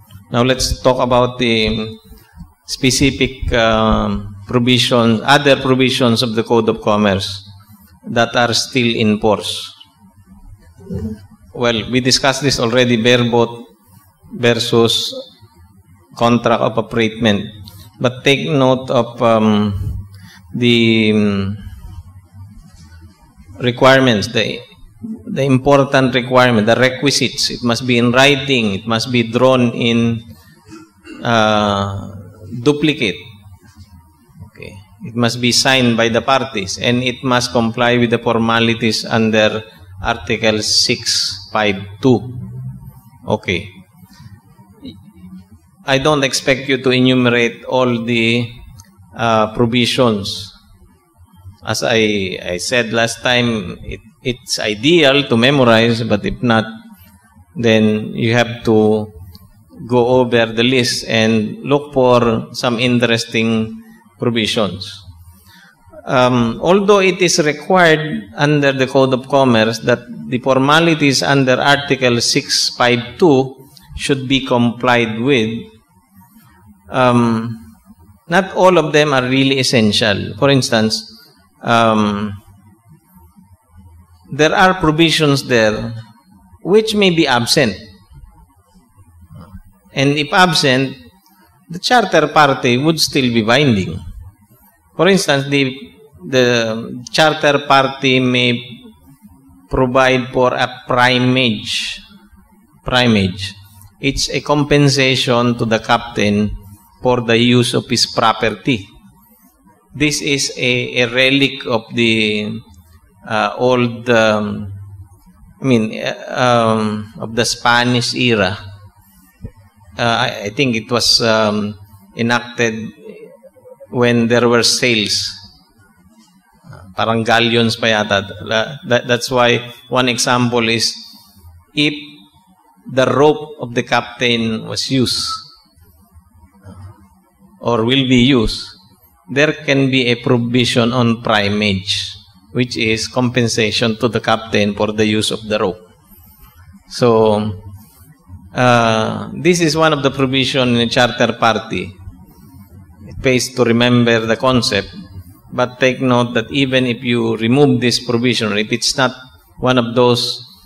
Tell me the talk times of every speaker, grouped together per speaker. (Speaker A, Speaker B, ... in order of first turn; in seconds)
Speaker A: 0.3-2.0, 2.6-7.4, 8.1-9.7, 11.5-13.7, 14.3-15.2, 16.1-20.0, 20.5-21.6, 23.6-30.2, 31.2-33.2, 34.4-42.3, 43.2-43.7, 45.9-48.5, 49.1-50.5, 51.6-56.7, 57.5-59.1, 59.8-65.0, 66.0-75.7, 76.9-77.6, 78.3-81.1, 81.6-82.4, 84.3-86.0, 86.6-87.8, 89.9-91.0, 91.7-94.0, 95.0-98.8, 99.7-102.0, 102.8-108.9, 109.9-112.6, 113.2-114.8, 115.6-118.6, 120.0-123.3, 123.9-125.4, 126.8-131.0, 131.7-132.2, 132.9-135.4, 137.6-138.7, 139.3-145.8, 146.9-147.6, 148.5-151.9, 153.1-154.9, 155.5-160.4